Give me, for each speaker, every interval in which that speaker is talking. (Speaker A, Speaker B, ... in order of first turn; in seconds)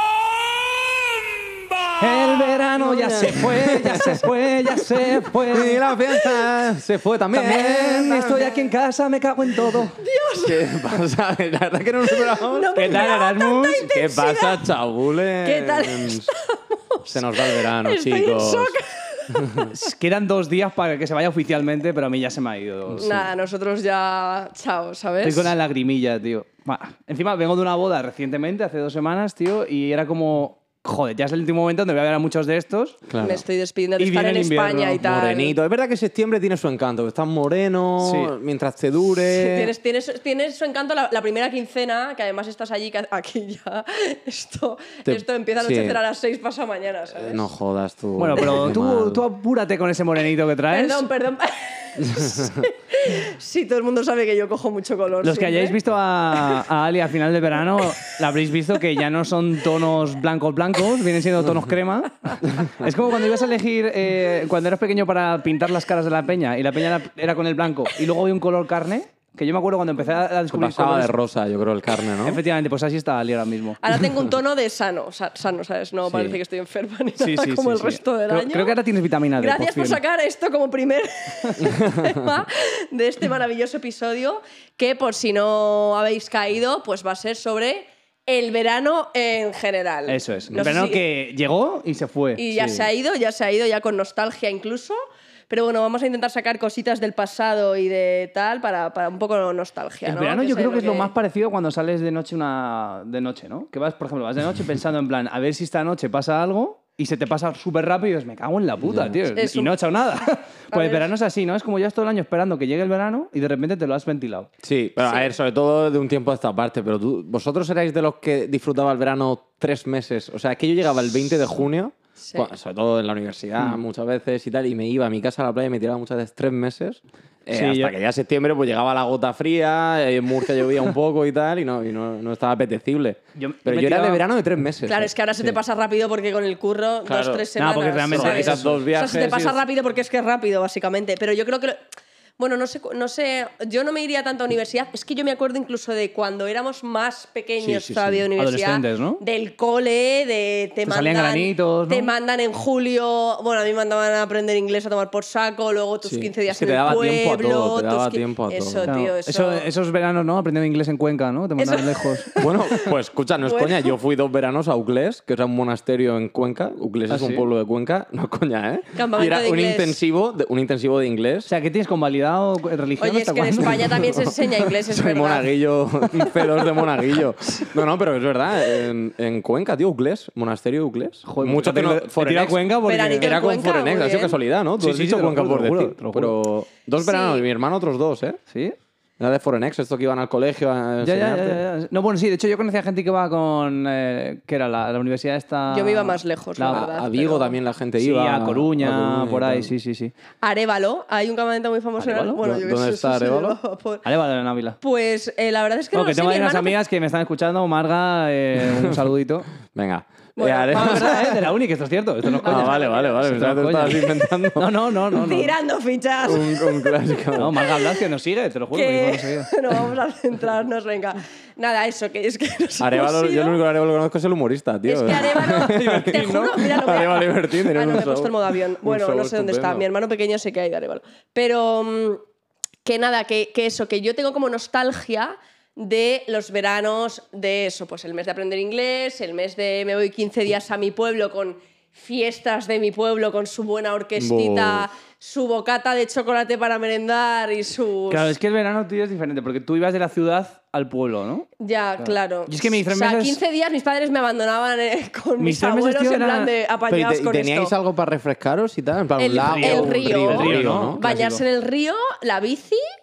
Speaker A: 2.0-5.8, 7.3-10.0, 12.8-13.9, 19.8-23.1, 25.2-33.0, 34.0-35.0, 38.0-38.3, 48.2-51.0, 55.2-71.1, 72.2-73.8, 77.2-80.0, 90.1-92.5, 100.0-114.5, 127.5-128.0, 133.4-134.2, 137.6-138.8, 148.4-149.2, 150.8-152.1, 158.9-162.3, 167.1-167.5, 171.5-174.1, 181.2-183.3, 184.8-186.3, 188.5-188.8, 191.0-196.9, 198.0-200.1, 202.0-202.4, 204.1-204.8, 205.9-209.5, 210.7-214.0, 214.6-215.5, 217.4-219.5, 225.7-226.3, 248.1-251.5, 252.0-253.4, 255.4-256.5, 259.4-261.4
Speaker B: 2.1-4.3, 4.8-8.4, 10.4-13.1, 13.8-16.3, 17.1-18.8, 19.3-19.7, 22.9-23.3, 33.1-33.4, 35.0-39.7, 45.1-46.0, 47.2-49.2, 52.0-52.7, 70.5-72.4, 76.0-76.4, 81.6-82.1, 92.5-92.9, 108.8-109.1, 114.6-135.6, 137.1-137.4, 138.1-139.6, 147.6-148.3, 156.1-158.9, 162.4-171.5, 174.0-182.7, 183.2-188.4, 189.2-191.6, 196.7-199.7, 202.4-203.6, 209.7-211.4, 212.5-214.7, 216.2-217.5, 222.8-229.9, 244.2-244.9, 256.9-261.0
Speaker C: 5.8-6.5, 8.0-8.6, 10.0-11.0, 12.2-14.7, 15.4-19.8, 23.0-25.5, 33.2-35.5, 39.2-47.5, 50.7-55.8, 56.3-56.6, 73.8-78.8, 79.4-91.0, 92.4-95.0, 95.5-101.1, 109.3-109.8, 110.7-111.1, 134.9-141.8, 142.4-159.7, 161.6-162.9, 163.5-163.9, 169.0-170.0, 173.0-176.6, 182.8-184.4, 187.0-187.4, 195.7-197.6, 200.4-204.1, 204.8-206.8, 210.4-211.5, 212.4-213.2, 215.1-217.0, 217.6-218.0, 218.7-223.6, 224.9-232.2, 232.8-248.4, 251.6-257.8, 259.2-262.8